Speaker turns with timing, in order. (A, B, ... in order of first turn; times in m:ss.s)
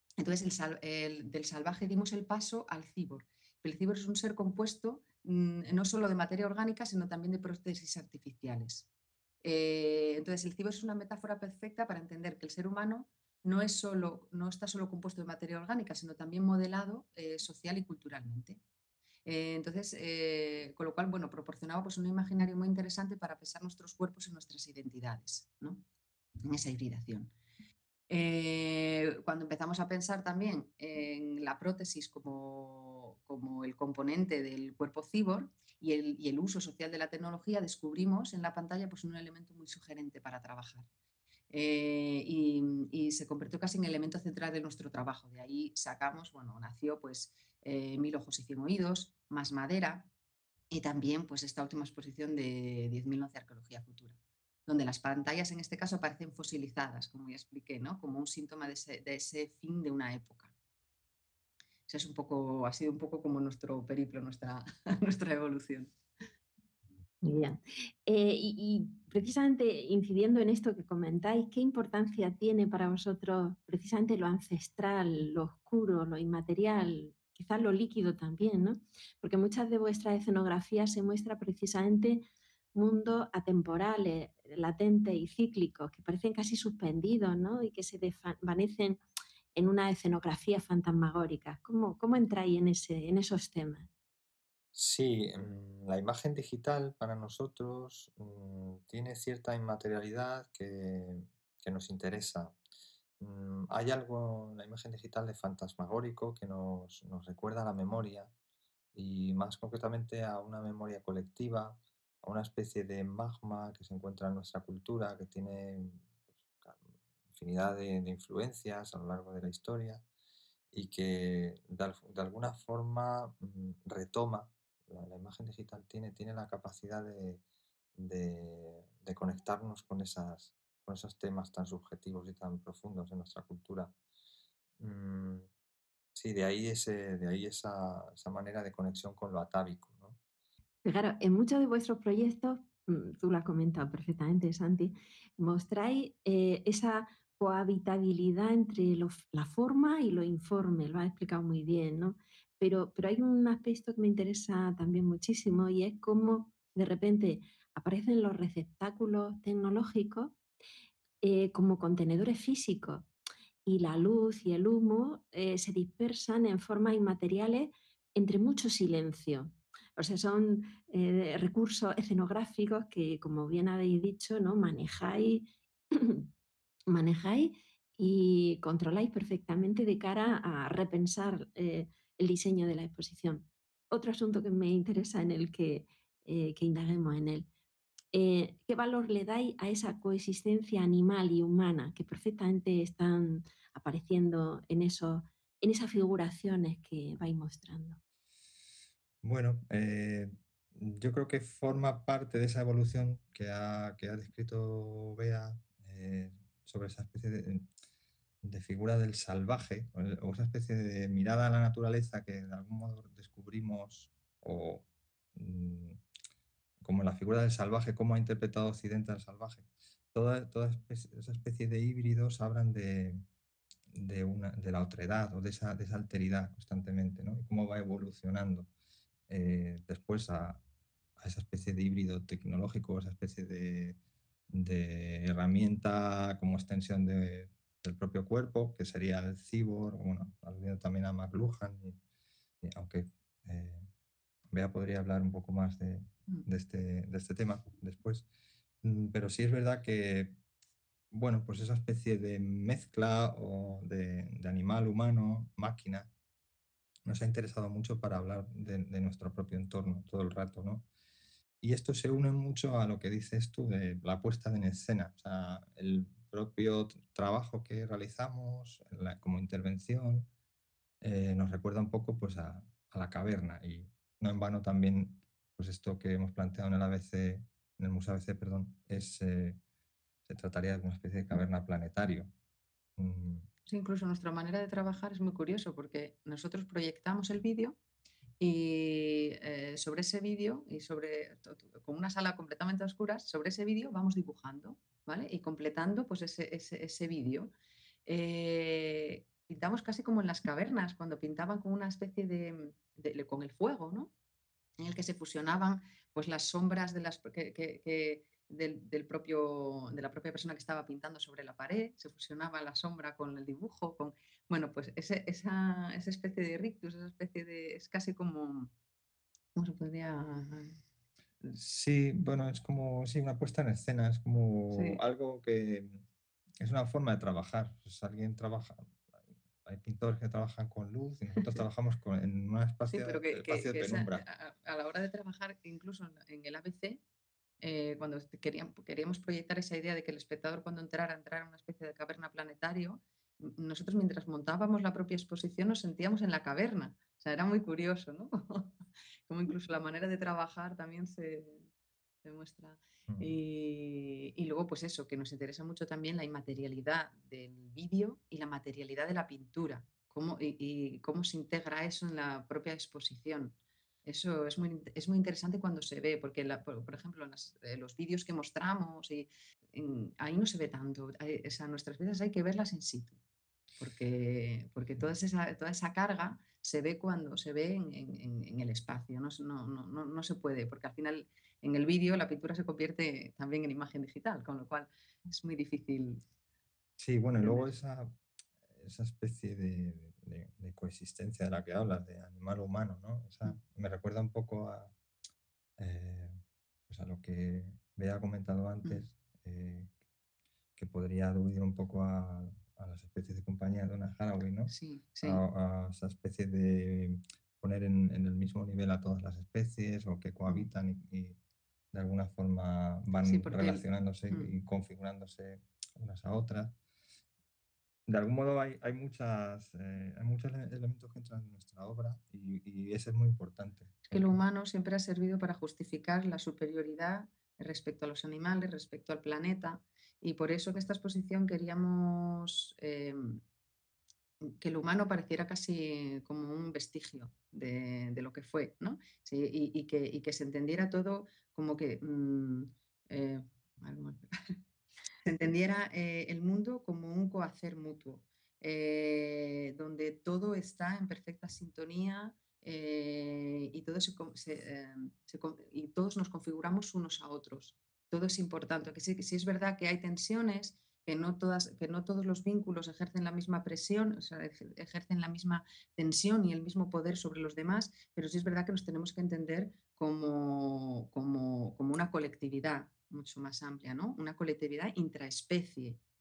0:00.2-0:08.9 A
0:09.4-0:18.6 A
0:19.3-0:25.8 A
0:26.4-0:27.3 A
0:28.1-0:40.9 A
0:41.5-0:50.1 A
0:50.7-1:00.5 A
1:01.9-1:06.0 A
1:07.2-1:22.2 B
1:22.8-1:29.0 B
1:29.6-1:33.9 B
1:34.7-1:42.6 C
1:43.2-1:48.3 C
1:48.9-1:56.1 C
1:57.3-2:00.0 C
2:00.7-2:07.4 C
2:08.0-2:13.9 C
2:14.8-2:15.5 C
2:16.2-2:20.2 C
2:20.8-2:40.4 B
2:41.2-2:43.1 B
2:43.7-2:56.3 B
2:56.9-3:07.5 B
3:08.1-3:18.0 B
3:19.2-3:27.7 C
3:28.4-3:36.0 C
3:36.8-3:43.2 C
3:43.9-3:48.7 C
3:49.3-3:50.6 C
3:51.2-3:54.0 C
3:54.5-4:02.0 C
4:02.6-4:03.9 C
4:04.5-4:08.3 C
4:08.8-4:10.4 C
4:11.1-4:16.1 C
4:17.0-4:20.9 C
4:21.6-4:30.3 C
4:31.0-4:39.6 C
4:40.3-4:42.3 C
4:43.0-4:43.5 C
4:43.7-4:47.8 A
4:48.4-4:57.5 A
4:58.1-5:04.1 A
5:04.8-5:18.7 A
5:19.6-5:20.8 A
5:21.5-5:26.0 C
5:24.7-5:25.0 A
5:26.6-5:28.9 C
5:29.6-5:34.2 C
5:32.9-5:37.0 A
5:37.6-5:48.8 A
5:49.3-5:51.7 A
5:52.2-6:13.2 A
5:53.1-5:53.3 C
6:13.8-6:26.2 A
6:27.0-6:28.2 C
6:27.4-6:27.7 A
6:28.7-6:34.9 C
6:35.8-6:36.4 C
6:36.9-6:39.9 C
6:40.8-6:51.4 C
6:44.7-6:45.4 A
6:51.9-6:56.8 C
6:53.2-6:54.5 A
6:58.1-7:04.4 C
7:04.1-7:13.4 A
7:14.4-7:24.6 A
7:25.2-7:56.0 A